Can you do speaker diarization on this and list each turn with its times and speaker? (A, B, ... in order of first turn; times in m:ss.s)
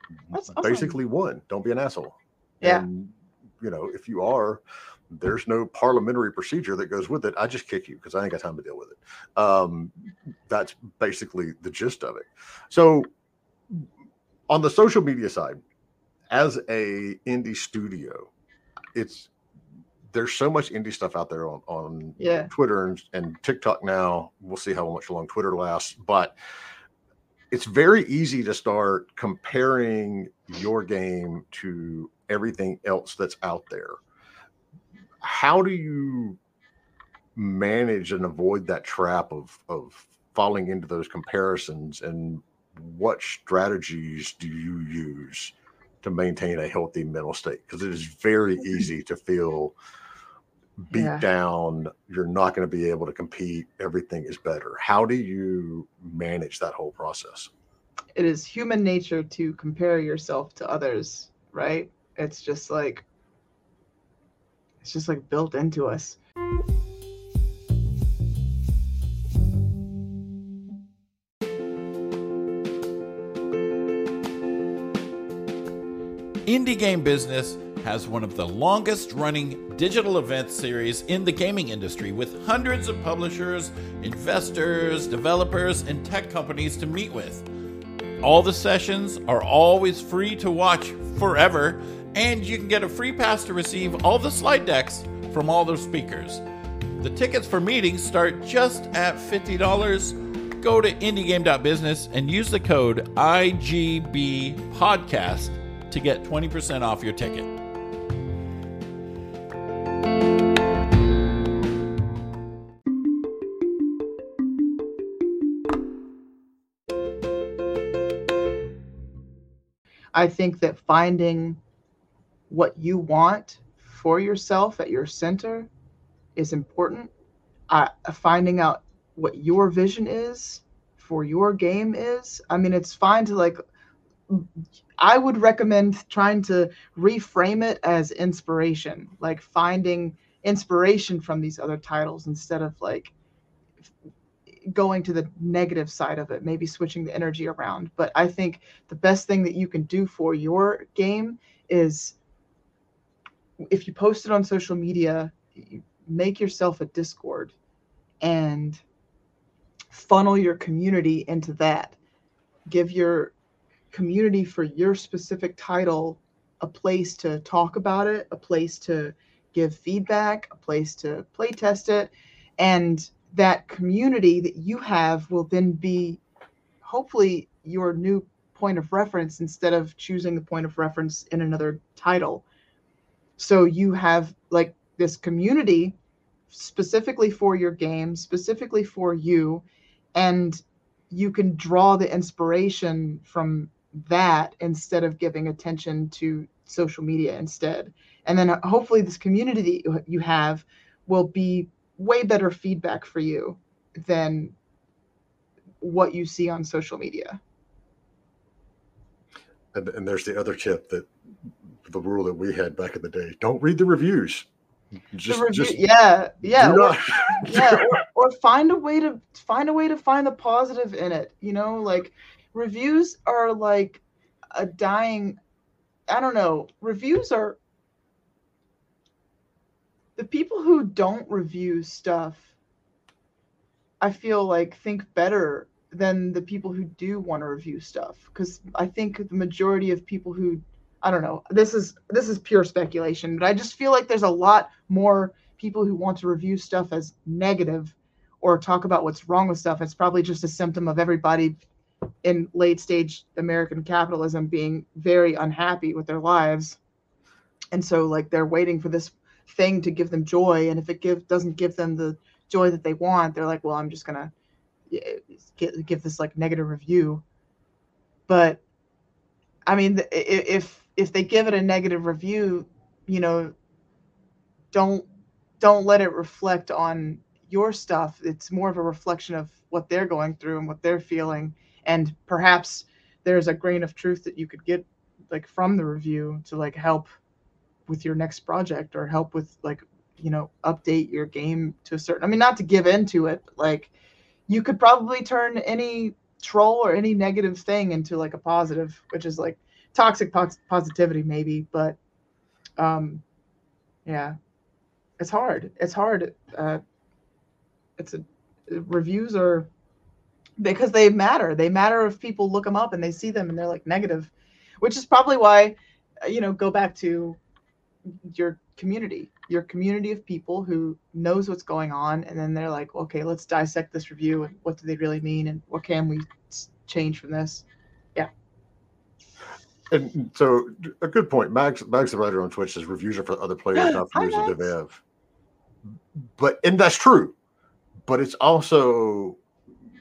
0:00.3-0:00.9 A
0:00.4-0:13.1 B
0:14.5-0:15.6 B
0:16.3-0:18.3 B
0:18.9-0:19.3 B
0:20.1-0:26.3 B
0:22.2-0:22.5 A
0:27.5-0:34.0 B
0:35.2-0:36.4 B
0:37.4-0:49.7 B
0:50.8-0:57.5 B
0:50.9-0:51.2 A
0:58.2-1:03.0 A
1:04.8-1:06.2 A
1:16.5-1:27.4 C
1:28.2-1:36.4 C
1:37.0-1:47.6 C
2:00.1-2:01.6 A
2:02.5-2:05.7 A
2:06.4-2:07.1 A
2:07.7-2:13.6 A
2:15.0-2:23.1 A
2:24.7-2:32.2 A
2:33.7-2:37.5 A
2:38.2-2:38.8 A
2:39.9-2:42.0 A
2:42.7-2:43.3 A
2:43.9-2:56.2 A
2:56.8-3:02.4 A
3:03.4-3:05.9 A
3:06.5-3:09.6 A
3:10.1-3:24.5 A
3:25.8-3:27.4 A
3:29.7-3:31.1 B
3:31.8-3:34.5 B
3:35.1-3:35.8 B
3:35.3-3:44.0 A
3:36.4-3:37.9 B
3:44.5-3:45.4 A
3:46.1-3:47.6 A
3:50.2-3:52.5 A
3:54.0-4:11.6 A
4:12.2-4:16.8 A
4:17.7-4:24.3 A
4:24.9-4:27.2 A
4:28.3-4:28.6 A
4:29.7-4:33.5 A
4:34.7-4:35.1 A
4:35.6-4:47.1 A
4:47.9-4:53.9 A
4:54.5-5:02.0 A
5:02.8-5:03.2 A
5:04.0-5:04.4 A
5:05.2-5:06.8 A
5:08.0-5:09.7 A
5:10.6-5:17.4 A
5:18.2-5:27.6 A
5:29.9-5:35.0 B
5:33.8-5:34.7 A
5:36.4-5:37.3 B
5:38.0-5:39.4 B